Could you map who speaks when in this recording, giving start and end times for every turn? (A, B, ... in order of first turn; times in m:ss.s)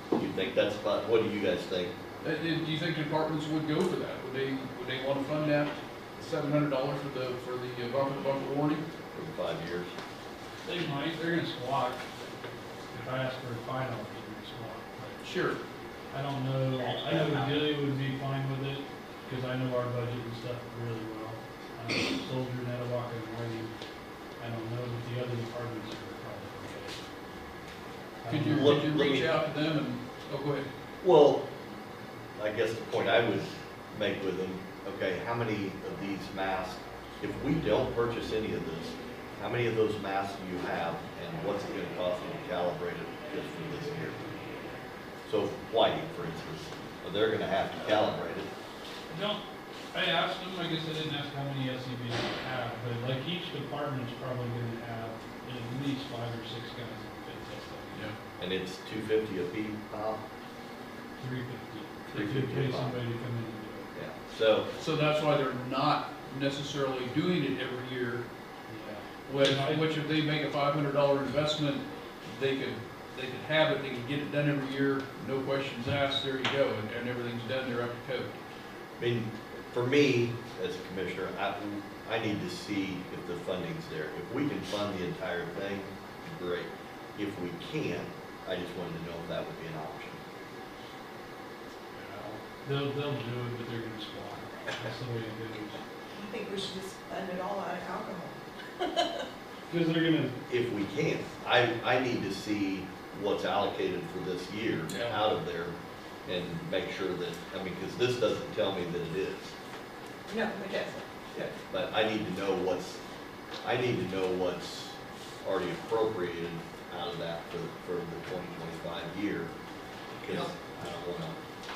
0:00.2-0:01.9 A
0:02.2-0:08.8 B
0:09.1-0:09.9 A
0:10.6-0:12.0 C
0:12.9-0:15.2 C
0:15.2-0:15.6 B
0:16.1-0:23.7 C
0:16.8-0:17.4 D
0:24.4-0:27.0 C
0:28.2-0:28.8 C
0:28.3-0:30.7 B
0:28.5-0:29.3 A
0:31.0-0:31.4 A
0:32.4-0:44.2 A
0:45.3-0:48.5 A
0:49.1-0:58.1 C
0:58.4-1:00.2 A
1:01.2-1:03.9 C
1:02.1-1:03.0 A
1:03.9-1:04.7 A
1:04.8-1:08.2 B
1:08.7-1:09.9 C
1:09.3-1:18.3 B
1:19.0-1:30.2 A
1:31.9-1:35.8 C
1:36.1-1:39.2 D
1:39.7-1:40.4 C
1:40.5-1:45.8 A
1:44.9-1:45.2 B
1:46.3-1:49.6 A
1:50.3-1:51.1 D
1:51.3-1:53.0 A
1:53.6-1:59.5 A
2:00.2-2:01.4 A